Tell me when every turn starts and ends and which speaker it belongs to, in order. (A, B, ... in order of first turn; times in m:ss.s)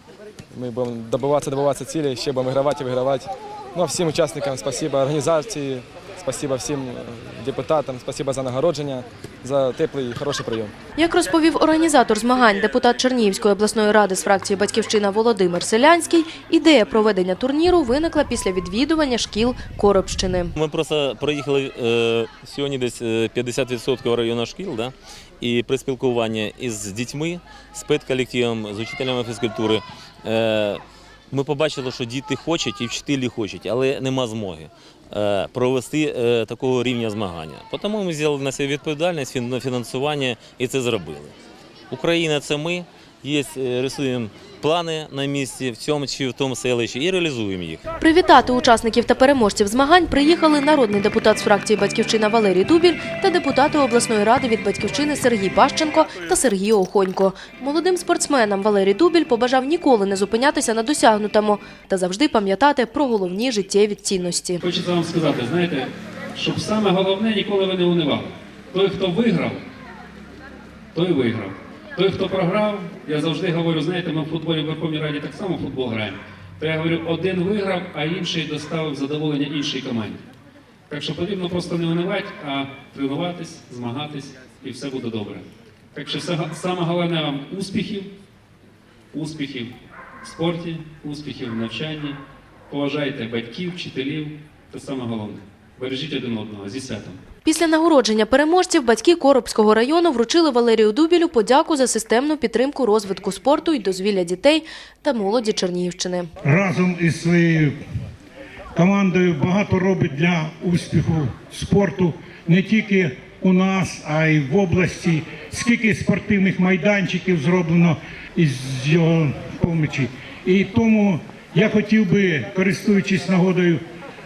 0:00.5-0:10.7 A
0:11.0-0:20.5 B
0:20.6-0:41.3 C
0:41.9-0:47.8 C
0:48.0-1:04.6 B
1:04.6-1:09.6 D
1:11.0-1:20.2 D
1:20.9-1:28.1 D
1:29.1-1:37.2 D
1:37.4-1:46.3 B
1:46.4-1:47.8 E
1:48.8-2:03.8 E